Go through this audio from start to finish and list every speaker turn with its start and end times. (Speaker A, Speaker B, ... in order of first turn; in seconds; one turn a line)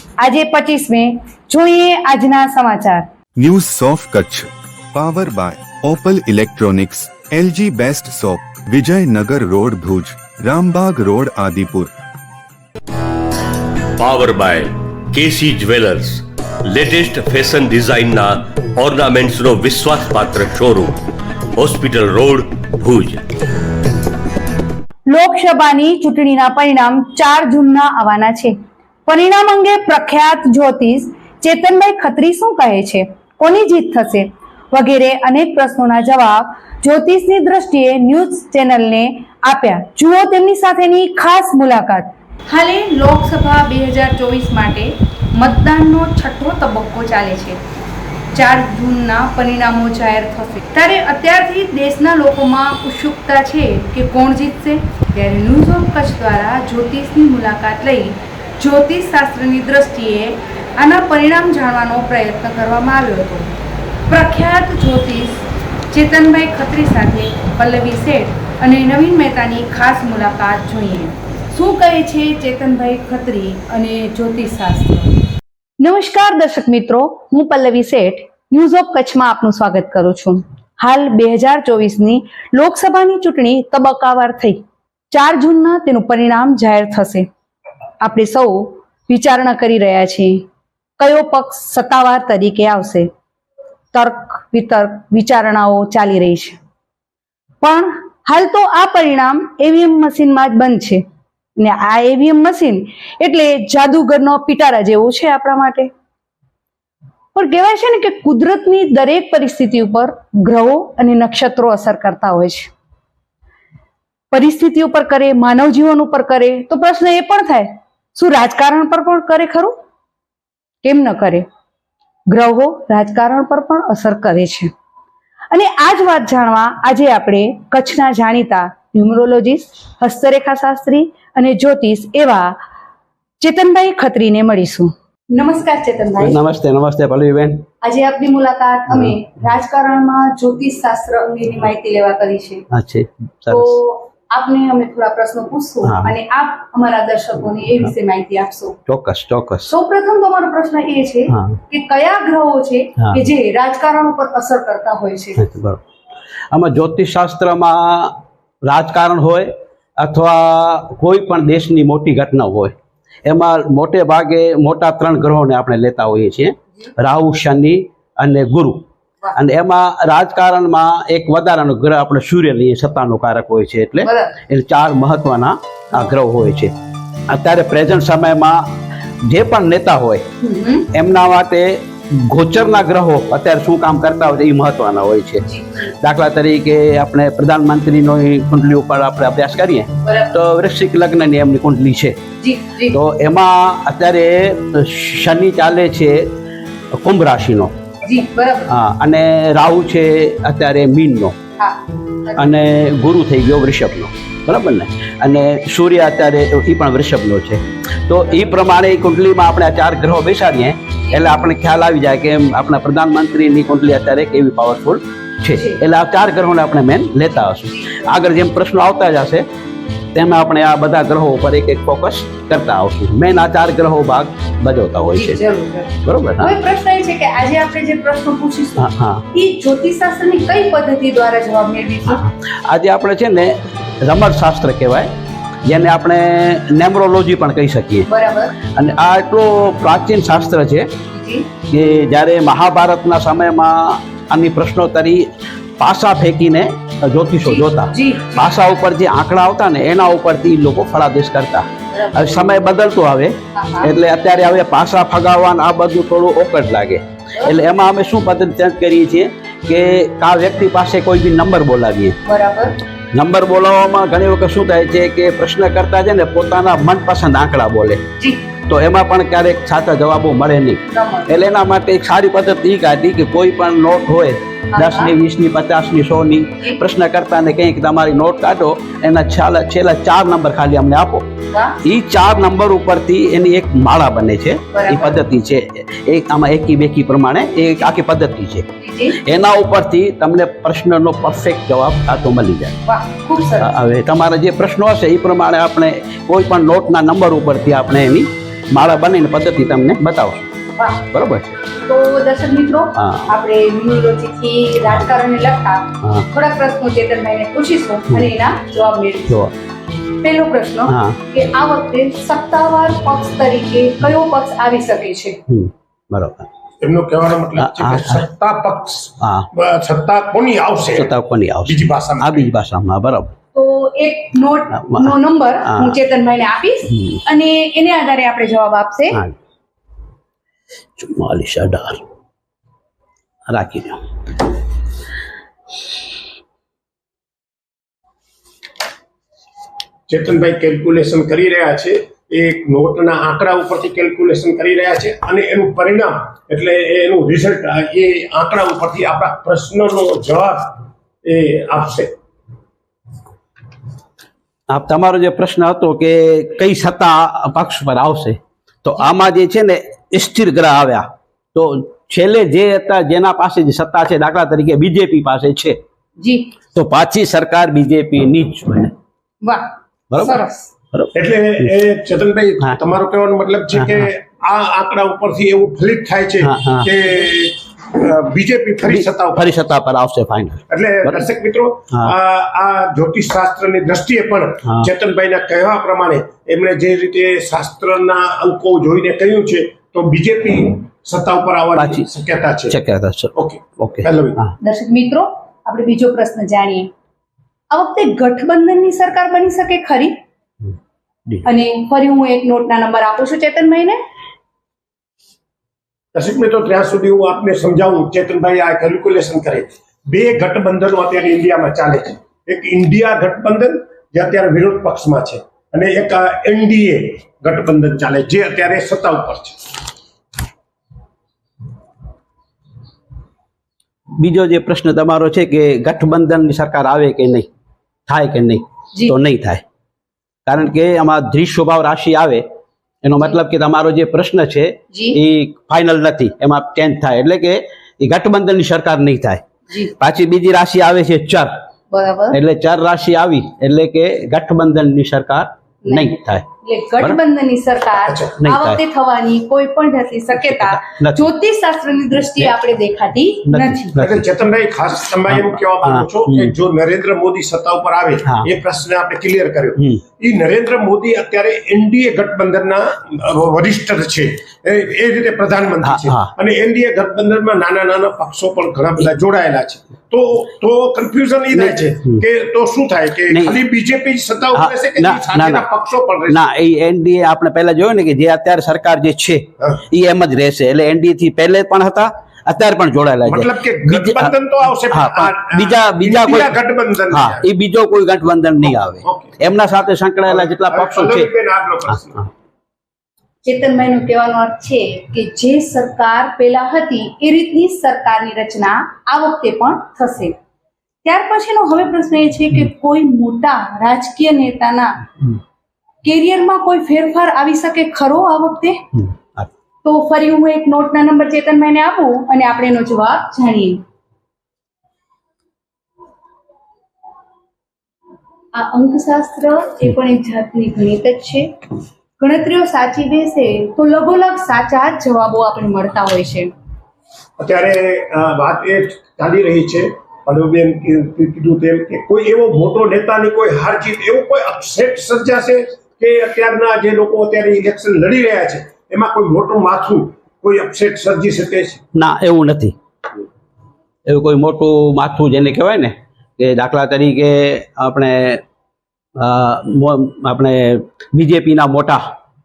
Speaker A: 0.2-3.1
Speaker B: 3.4-11.9
Speaker C: 14.0-21.0
Speaker C: 21.6-23.2
Speaker A: 25.1-47.6
Speaker A: 48.3-63.5
Speaker A: 64.1-75.1
Speaker A: 75.8-87.3
Speaker A: 88.0-90.5
Speaker A: 91.0-93.1
Speaker A: 93.9-96.6
Speaker A: 97.6-101.0
Speaker A: 101.6-105.9
Speaker A: 107.3-112.7
Speaker A: 114.3-119.8
Speaker A: 120.8-121.5
Speaker A: 122.3-124.7
Speaker A: 125.5-132.6
Speaker A: 133.4-136.4
Speaker D: 136.2-137.6
Speaker A: 137.8-142.7
Speaker D: 138.9-139.2
Speaker D: 142.7-143.8
Speaker A: 143.5-148.8
Speaker D: 145.8-146.1
Speaker D: 148.9-149.7
Speaker A: 149.7-155.4
Speaker D: 151.3-151.6
Speaker D: 155.4-155.8
Speaker D: 156.5-162.7
Speaker D: 163.3-168.8
Speaker D: 169.3-176.7
Speaker A: 174.0-174.4
Speaker D: 177.3-178.6
Speaker D: 179.3-180.2
Speaker A: 180.4-180.9
Speaker D: 180.9-185.4
Speaker A: 185.5-185.9
Speaker D: 186.0-192.2
Speaker A: 190.0-190.3
Speaker A: 192.4-193.0
Speaker D: 192.9-196.3
Speaker D: 197.0-197.7
Speaker A: 198.0-198.7
Speaker D: 198.7-201.4
Speaker A: 201.6-202.5
Speaker D: 202.4-219.5
Speaker A: 215.5-215.8
Speaker A: 217.7-218.1
Speaker D: 220.1-225.4
Speaker A: 225.1-232.2
Speaker D: 226.0-226.5
Speaker D: 228.8-229.3
Speaker D: 232.1-235.1
Speaker D: 235.7-238.1
Speaker A: 238.1-238.6
Speaker D: 238.7-240.9
Speaker A: 241.1-241.5
Speaker D: 241.7-245.3
Speaker D: 245.8-262.2
Speaker A: 247.4-248.6
Speaker A: 251.9-252.6
Speaker A: 253.5-253.9
Speaker A: 262.2-262.8
Speaker D: 263.1-268.0
Speaker A: 268.2-268.4
Speaker D: 268.7-281.3
Speaker A: 270.9-271.4
Speaker A: 274.7-275.1
Speaker A: 281.5-281.8
Speaker D: 281.8-292.8
Speaker A: 284.7-285.2
Speaker A: 288.8-289.2
Speaker A: 292.9-293.8
Speaker D: 293.6-300.5
Speaker A: 300.8-301.1
Speaker D: 301.1-301.6
Speaker A: 301.8-309.5
Speaker D: 303.0-303.3
Speaker A: 310.2-315.4
Speaker D: 310.9-311.2
Speaker D: 315.5-316.5
Speaker E: 316.8-321.1
Speaker D: 317.6-318.2
Speaker D: 319.2-319.5
Speaker D: 321.0-323.3
Speaker E: 321.6-322.5
Speaker A: 323.5-329.2
Speaker D: 324.8-326.0
Speaker D: 326.9-327.2
Speaker D: 331.0-332.0
Speaker D: 333.5-334.0
Speaker E: 340.1-352.1
Speaker D: 354.7-365.8
Speaker A: 366.2-366.5
Speaker D: 366.7-368.9
Speaker A: 369.4-370.7
Speaker D: 370.1-370.4
Speaker D: 370.9-371.8
Speaker E: 371.1-379.5
Speaker D: 373.7-374.1
Speaker D: 376.4-376.9
Speaker D: 378.9-381.3
Speaker E: 380.7-392.8
Speaker D: 391.8-392.1
Speaker D: 392.7-394.5
Speaker E: 393.4-394.4
Speaker A: 394.6-396.9
Speaker A: 397.7-400.2
Speaker A: 401.4-404.0
Speaker E: 406.1-419.7
Speaker D: 424.2-427.5
Speaker D: 428.1-429.6
Speaker D: 430.5-432.4
Speaker D: 433.0-439.4
Speaker A: 434.9-435.2
Speaker D: 440.0-441.5
Speaker A: 441.9-442.4
Speaker D: 442.3-446.5
Speaker A: 445.9-453.9
Speaker E: 448.0-448.4
Speaker D: 448.4-448.8
Speaker D: 450.3-451.3
Speaker D: 453.5-454.3
Speaker E: 454.0-476.4
Speaker D: 455.3-456.5
Speaker D: 465.8-466.3
Speaker D: 471.5-472.2
Speaker D: 473.3-473.6
Speaker D: 474.6-475.7
Speaker D: 476.3-486.5
Speaker E: 483.3-487.4
Speaker D: 487.1-491.3
Speaker E: 489.0-489.4
Speaker E: 490.3-492.2
Speaker A: 493.4-500.4
Speaker A: 501.0-505.0
Speaker A: 506.0-508.8
Speaker D: 508.9-509.5
Speaker A: 509.8-513.8
Speaker A: 518.5-521.5
Speaker A: 522.2-526.5
Speaker E: 527.4-541.8
Speaker D: 542.0-542.8
Speaker D: 544.1-548.4
Speaker D: 549.2-552.0